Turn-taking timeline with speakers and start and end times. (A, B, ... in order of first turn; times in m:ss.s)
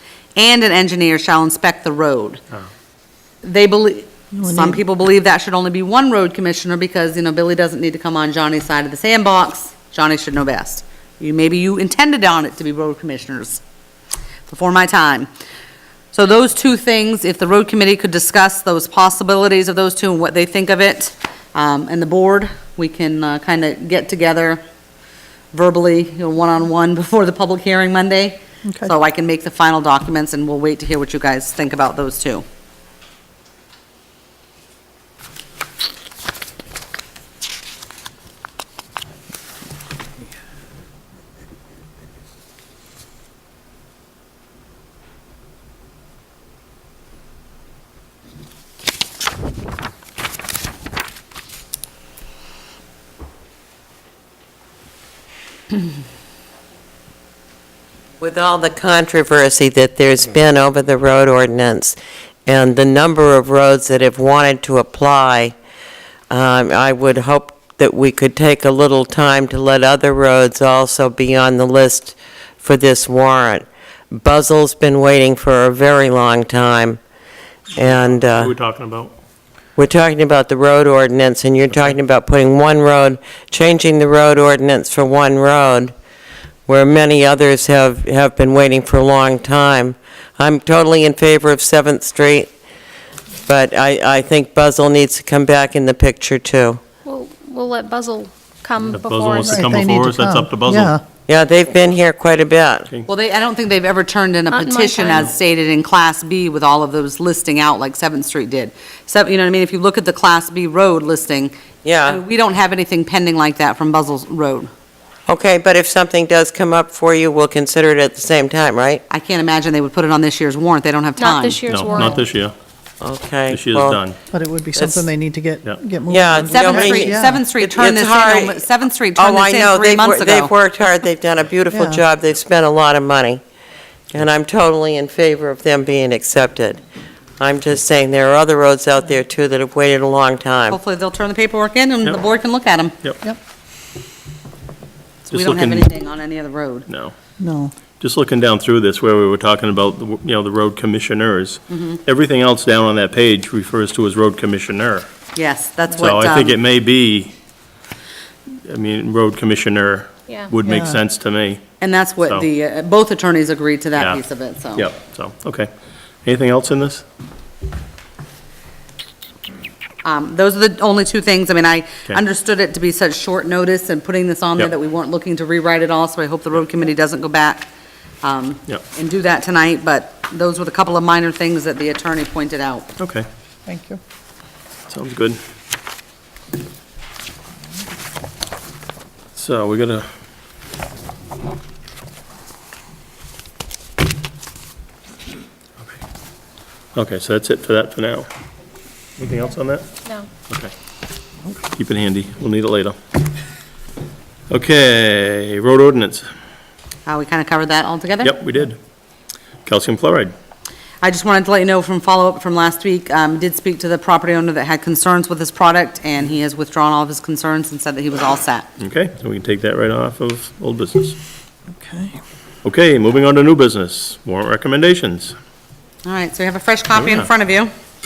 0:00.4-0:02.4 A
0:03.4-0:13.6 A
0:04.3-0:04.8 B
0:14.5-0:15.3 A
0:16.1-0:24.6 A
0:25.5-0:32.4 A
0:58.2-1:05.5 C
1:06.3-1:17.0 C
1:17.8-1:19.1 D
1:17.8-1:18.5 C
1:19.8-1:25.9 C
1:26.7-1:32.5 C
1:33.4-1:36.8 C
1:37.0-1:39.6 E
1:38.9-1:40.9 D
1:39.4-1:41.0 B
1:41.3-1:42.9 C
1:43.1-1:51.5 A
1:44.5-1:45.3 E
1:51.8-1:52.2 C
1:52.0-1:54.7 A
1:55.3-1:59.0 C
1:59.1-2:02.0 A
2:01.2-2:02.2 E
2:01.7-2:02.5 D
2:03.0-2:04.0 C
2:03.5-2:04.2 D
2:04.3-2:07.4 B
2:04.7-2:05.0 C
2:06.1-2:08.6 C
2:06.5-2:10.5 A
2:09.2-2:13.4 C
2:11.7-2:12.0 B
2:14.1-2:16.8 C
2:17.4-2:20.8 C
2:20.7-2:23.0 A
2:25.2-2:26.8 A
2:25.3-2:25.9 D
2:26.9-2:27.1 D
2:27.4-2:27.7 B
2:28.0-2:35.1 D
2:31.7-2:32.0 A
2:35.3-2:36.6 A
2:36.0-2:37.3 D
2:38.7-2:41.7 D
2:40.3-2:40.5 E
2:40.6-2:41.0 B
2:41.8-2:44.9 A
2:44.0-2:44.2 D
2:44.7-2:45.7 D
2:46.2-2:47.0 D
2:50.0-2:57.7 A
2:58.2-3:02.9 A
3:03.0-3:03.2 D
3:03.6-3:04.0 B
3:04.9-3:05.4 D
3:09.3-3:10.1 D
3:16.9-3:18.3 D
3:19.2-3:19.8 D
3:21.5-3:23.0 D
3:24.5-3:26.3 D
3:27.0-3:28.4 A
3:28.2-3:28.8 D
3:29.6-3:30.3 D
3:31.0-3:38.7 A
3:38.8-3:41.2 D
3:41.7-3:42.2 B
3:42.6-3:45.4 D
3:46.0-3:47.7 A